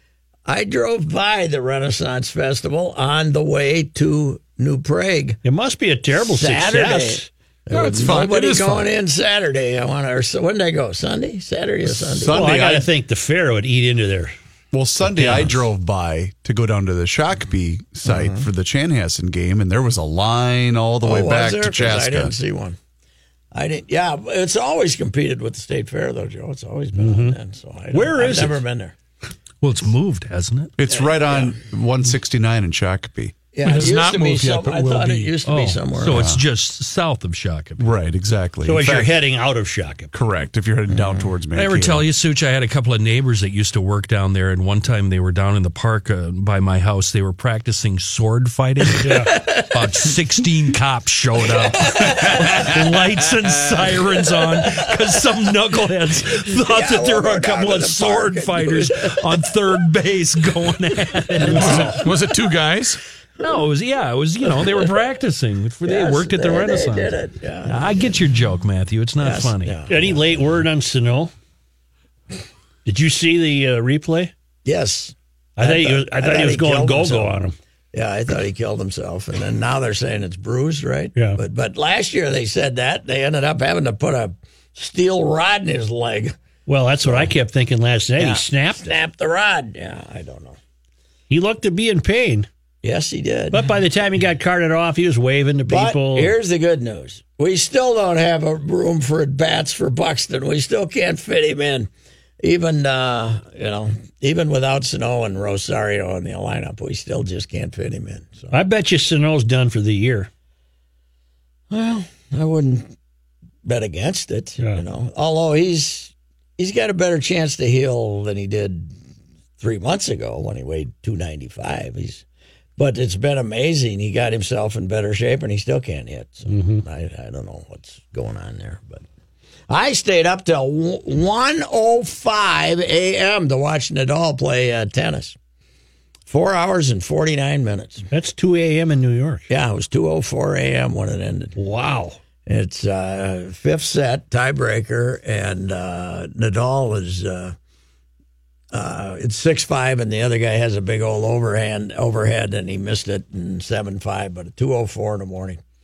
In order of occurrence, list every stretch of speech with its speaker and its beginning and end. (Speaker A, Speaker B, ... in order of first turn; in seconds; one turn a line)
Speaker A: 0.5-5.4
Speaker B: 5.4-7.3
Speaker A: 6.4-12.4
Speaker C: 7.7-8.9
Speaker D: 11.9-12.9
Speaker B: 12.3-14.3
Speaker D: 14.7-22.3
Speaker B: 15.0-15.7
Speaker A: 18.1-18.5
Speaker A: 21.0-22.8
Speaker A: 23.5-28.9
Speaker B: 27.0-27.4
Speaker B: 27.9-28.6
Speaker E: 29.6-30.7
Speaker D: 30.8-33.3
Speaker A: 30.9-31.6
Speaker A: 33.5-36.3
Speaker C: 33.6-35.3
Speaker E: 35.4-37.9
Speaker D: 36.1-36.4
Speaker D: 37.8-39.3
Speaker B: 38.6-40.1
Speaker D: 40.1-42.1
Speaker A: 40.9-41.3
Speaker E: 41.5-62.0
Speaker B: 49.0-49.4
Speaker A: 49.3-49.6
Speaker A: 52.0-52.6
Speaker A: 56.5-59.2
Speaker B: 61.4-62.0
Speaker A: 61.4-62.0
Speaker C: 61.6-63.0
Speaker E: 63.4-69.8
Speaker A: 65.8-68.2
Speaker A: 69.2-70.1
Speaker B: 69.9-71.3
Speaker B: 72.9-74.3
Speaker A: 74.6-77.4
Speaker B: 75.6-77.5
Speaker A: 77.9-86.3
Speaker B: 86.7-88.9
Speaker A: 87.0-87.3
Speaker A: 88.2-90.6
Speaker B: 91.3-92.5
Speaker A: 92.8-93.7
Speaker B: 93.5-96.3
Speaker A: 95.7-101.9
Speaker A: 102.4-108.5
Speaker B: 108.5-110.3
Speaker A: 111.7-112.9
Speaker A: 113.6-118.9
Speaker A: 119.6-122.2
Speaker A: 122.8-129.0
Speaker B: 126.5-126.8
Speaker A: 129.7-135.3
Speaker A: 136.3-138.1
Speaker B: 138.1-139.5
Speaker A: 139.5-141.6
Speaker B: 141.6-142.2
Speaker A: 142.4-147.6
Speaker A: 148.7-155.6